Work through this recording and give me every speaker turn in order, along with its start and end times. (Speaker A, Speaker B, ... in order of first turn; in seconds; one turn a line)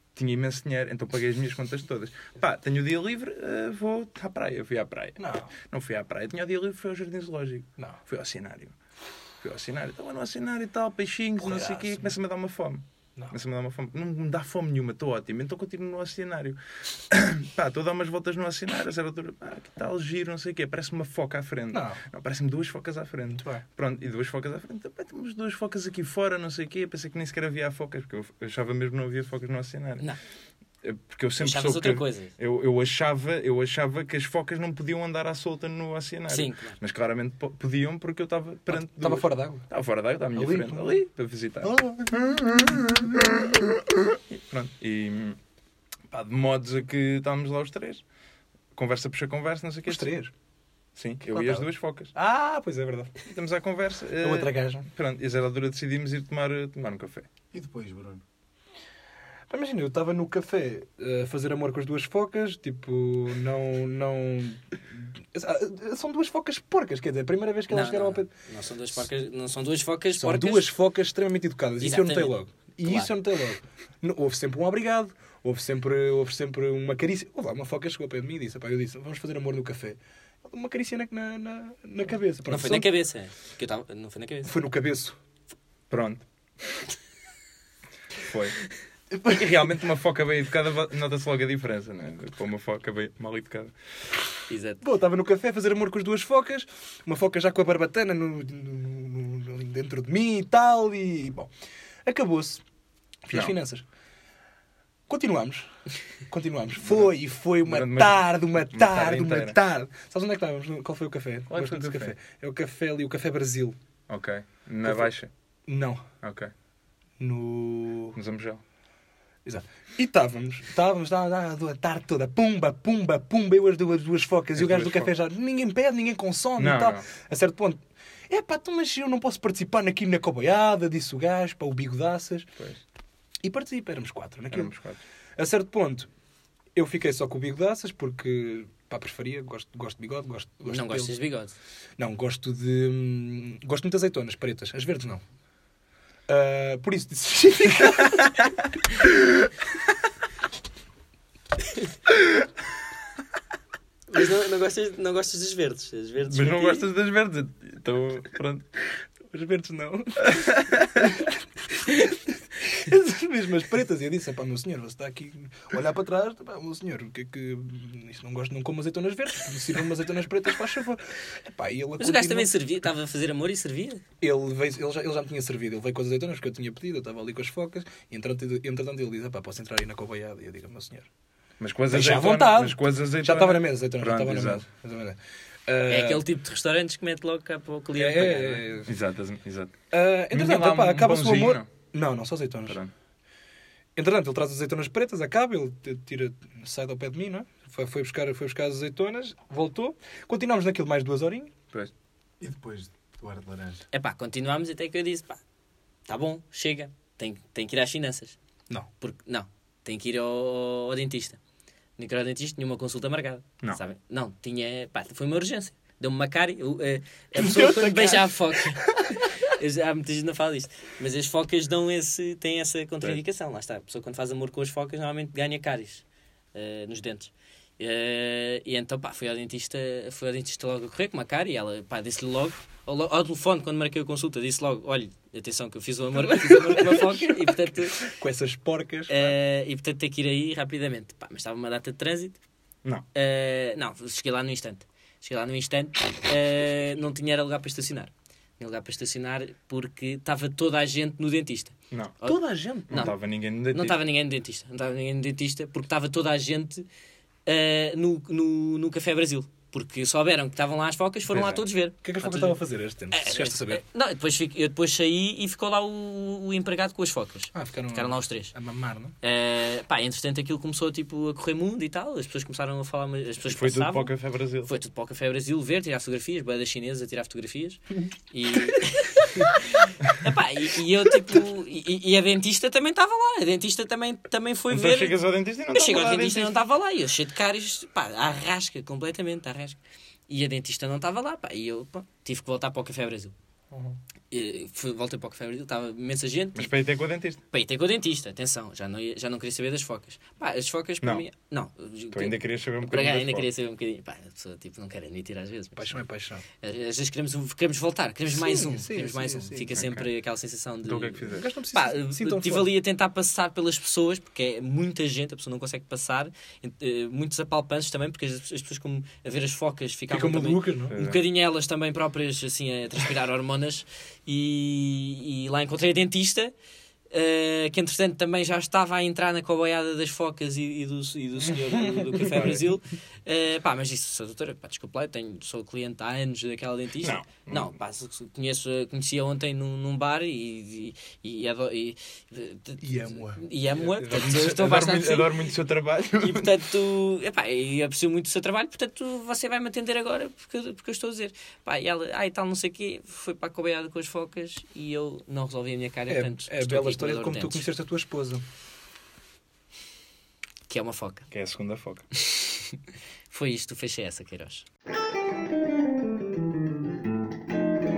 Speaker A: 0.1-8.8
Speaker B: 5.2-5.5
Speaker A: 9.4-16.6
Speaker B: 11.4-12.1
Speaker A: 17.1-30.1
Speaker B: 21.7-22.0
Speaker B: 23.4-23.6
Speaker A: 30.8-45.4
Speaker C: 31.4-32.3
Speaker C: 36.3-36.8
Speaker B: 38.7-39.7
Speaker B: 40.4-41.0
Speaker B: 41.6-42.9
Speaker A: 46.1-48.0
Speaker A: 48.8-50.1
Speaker B: 49.9-50.3
Speaker A: 51.0-52.1
Speaker B: 51.3-53.1
Speaker A: 53.2-57.3
Speaker B: 54.2-54.9
Speaker D: 57.5-58.2
Speaker B: 59.5-68.3
Speaker C: 67.7-70.7
Speaker B: 70.2-82.9
Speaker C: 71.8-73.1
Speaker C: 82.5-84.5
Speaker B: 84.5-85.2
Speaker A: 85.9-86.3
Speaker A: 88.2-88.6
Speaker A: 89.2-93.7
Speaker C: 94.5-94.8
Speaker B: 94.8-101.5
Speaker B: 102.1-102.6
Speaker B: 103.2-103.8
Speaker A: 103.3-103.5
Speaker B: 105.1-105.7
Speaker B: 106.2-113.8
Speaker A: 106.8-109.6
Speaker A: 111.5-112.1
Speaker A: 114.1-115.3
Speaker B: 115.7-116.0
Speaker A: 116.2-116.5
Speaker B: 117.2-118.2
Speaker A: 118.1-118.6
Speaker B: 119.4-132.5
Speaker A: 124.6-125.1
Speaker A: 126.6-127.1
Speaker B: 133.4-134.7
Speaker A: 134.5-135.0
Speaker B: 135.4-136.1
Speaker B: 136.8-141.2
Speaker C: 140.7-141.6
Speaker B: 142.0-145.2
Speaker B: 146.3-148.4
Speaker C: 154.1-156.9
Speaker A: 156.2-158.7
Speaker B: 159.3-172.5
Speaker A: 160.3-161.1
Speaker C: 172.0-174.0
Speaker B: 174.2-181.1
Speaker A: 181.6-184.6
Speaker B: 181.9-186.3
Speaker C: 185.9-188.6
Speaker B: 187.9-188.9
Speaker A: 188.9-189.8
Speaker B: 189.9-192.8
Speaker A: 190.3-191.7
Speaker A: 192.7-192.9
Speaker B: 193.9-201.5
Speaker D: 202.4-203.8
Speaker C: 203.9-205.4
Speaker C: 206.1-208.4
Speaker C: 209.0-211.4
Speaker C: 212.0-238.1
Speaker B: 217.4-219.3
Speaker B: 236.2-239.3
Speaker C: 239.1-242.4
Speaker C: 243.1-253.1
Speaker A: 251.9-254.0
Speaker B: 252.7-253.1
Speaker C: 253.7-256.9
Speaker C: 257.4-262.6
Speaker A: 261.3-261.6
Speaker B: 262.0-263.8
Speaker C: 263.1-268.5
Speaker B: 267.5-269.1
Speaker C: 269.2-274.1
Speaker A: 273.4-274.7
Speaker C: 274.6-285.2
Speaker A: 284.7-286.6
Speaker C: 285.7-293.3
Speaker C: 294.3-296.7
Speaker A: 296.6-297.4
Speaker C: 297.5-306.0
Speaker A: 302.1-303.5
Speaker B: 305.8-306.4
Speaker C: 306.6-326.5
Speaker B: 308.3-309.7
Speaker A: 309.8-310.1
Speaker A: 310.8-311.5
Speaker B: 311.3-312.7
Speaker B: 320.1-320.9
Speaker A: 320.9-321.2
Speaker C: 327.1-345.3
Speaker B: 331.6-332.4
Speaker A: 332.3-332.6
Speaker A: 337.0-337.7
Speaker B: 342.8-344.6
Speaker A: 344.1-346.6
Speaker C: 346.2-357.7
Speaker B: 356.1-358.4
Speaker C: 360.7-361.3
Speaker A: 361.3-362.1
Speaker C: 362.4-362.8
Speaker C: 363.3-364.6